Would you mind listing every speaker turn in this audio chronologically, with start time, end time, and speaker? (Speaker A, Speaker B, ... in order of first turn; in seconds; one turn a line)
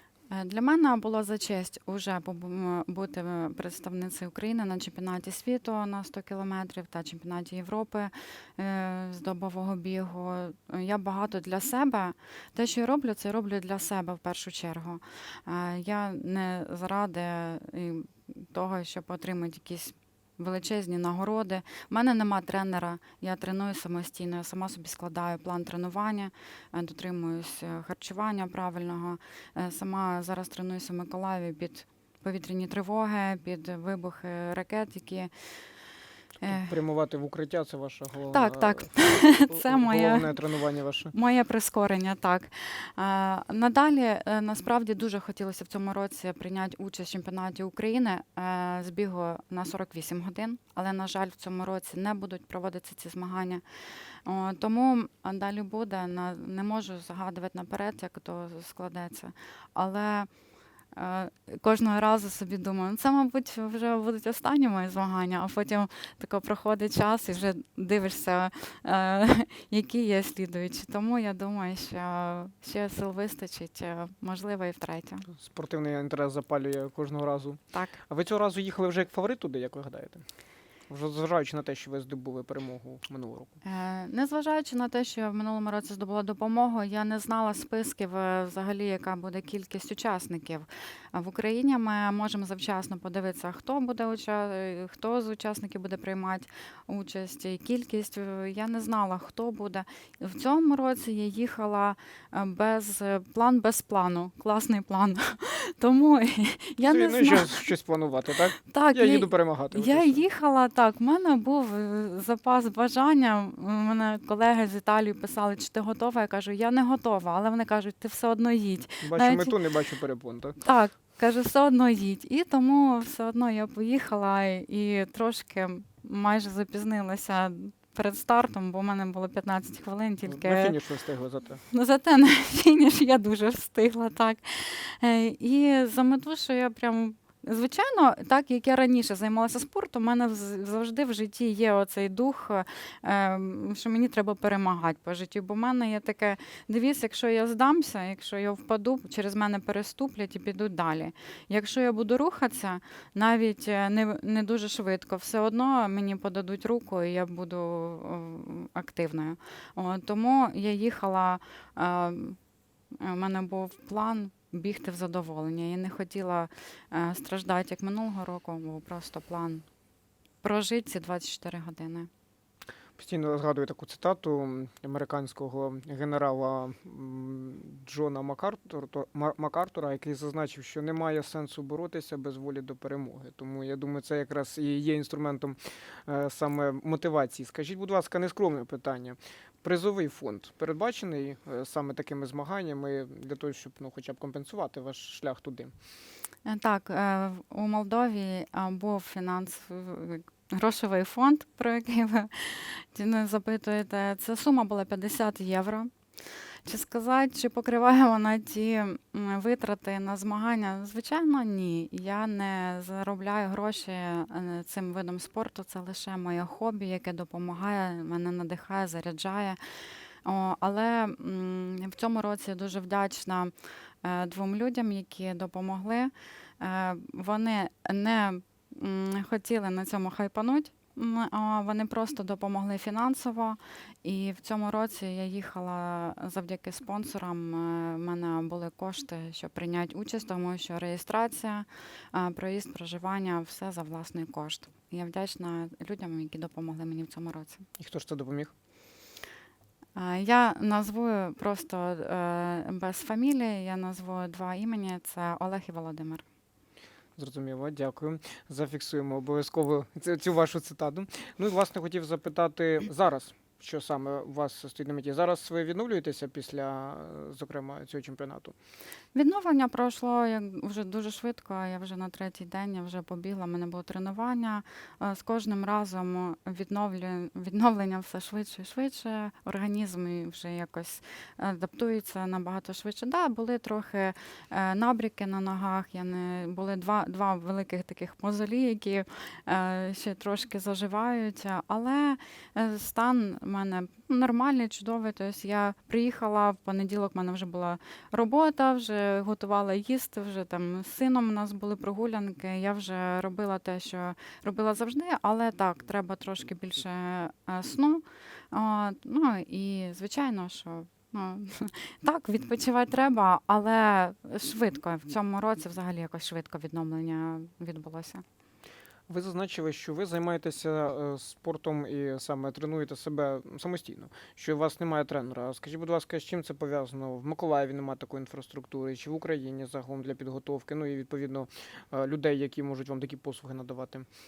Speaker A: 0.3-35.3
Speaker A: 36.4-36.8
Speaker B: 36.4-41.1
Speaker A: 38.3-40.4
Speaker A: 41.1-53.6
Speaker A: 54.3-60.3
Speaker A: 60.9-75.3
Speaker B: 75.3-80.3
Speaker A: 77.7-78.0
Speaker B: 80.9-83.6
Speaker A: 83.6-107.7
Speaker B: 106.8-110.2
Speaker A: 108.6-119.6
Speaker B: 119.0-120.6
Speaker A: 120.6-130.8
Speaker B: 130.3-131.6
Speaker A: 131.6-162.4
Speaker A: 163.0-169.7
Speaker A: 170.4-172.1
Speaker B: 173.0-195.7
Speaker A: 196.4-219.6
Speaker A: 220.2-247.7
Speaker B: 247.8-248.5
Speaker A: 250.0-256.2
Speaker B: 257.2-268.6
Speaker A: 269.1-318.2
Speaker B: 319.1-334.1